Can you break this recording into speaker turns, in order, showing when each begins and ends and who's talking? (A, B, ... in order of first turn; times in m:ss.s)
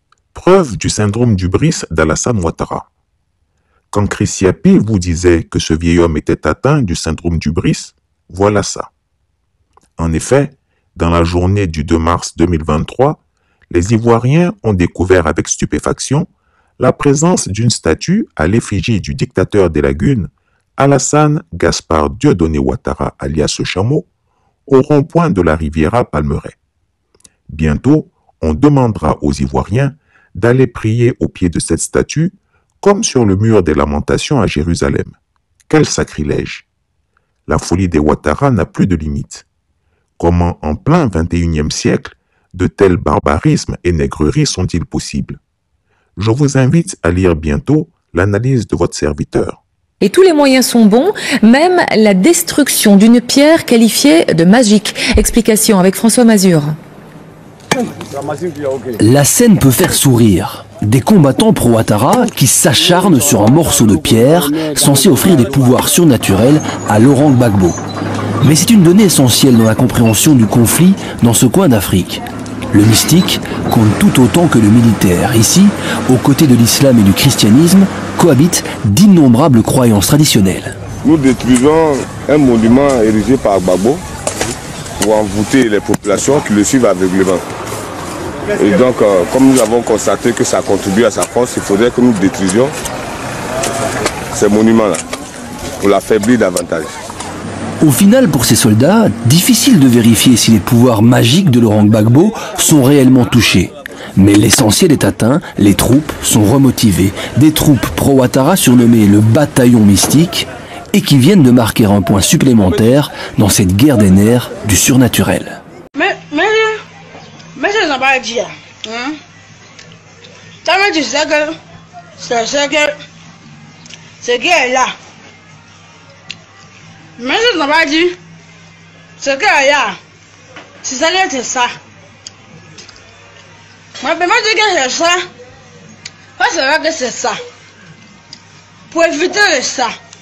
0:00.3-0:02.9 A
0:03.9-0:08.9 A
0:10.0-0:13.2 A
0:13.7-0:16.3 A
0:16.8-0:24.1 A
0:24.7-0:26.6 A
0:27.5-0:35.2 A
0:35.7-0:36.6 A
0:37.5-0:39.4 A
0:40.2-0:45.4 A
0:46.2-0:49.6 A
0:50.0-0:56.8 B
0:59.0-1:07.8 C
1:08.4-1:20.7 C
1:21.0-1:24.0 D
1:25.0-1:27.4 D
1:28.6-1:32.7 D
1:34.3-1:35.0 D
1:35.8-1:36.9 D
1:37.8-1:55.6 C
1:55.9-1:56.7 E
1:57.5-1:59.2 E
2:00.6-2:01.5 E
2:02.2-2:02.9 E
2:04.2-2:04.9 E
2:07.2-2:08.2 E
2:09.2-2:10.0 E
2:10.8-2:11.7 E
2:14.0-2:15.2 E
2:16.4-2:17.4 E
2:18.9-2:19.9 E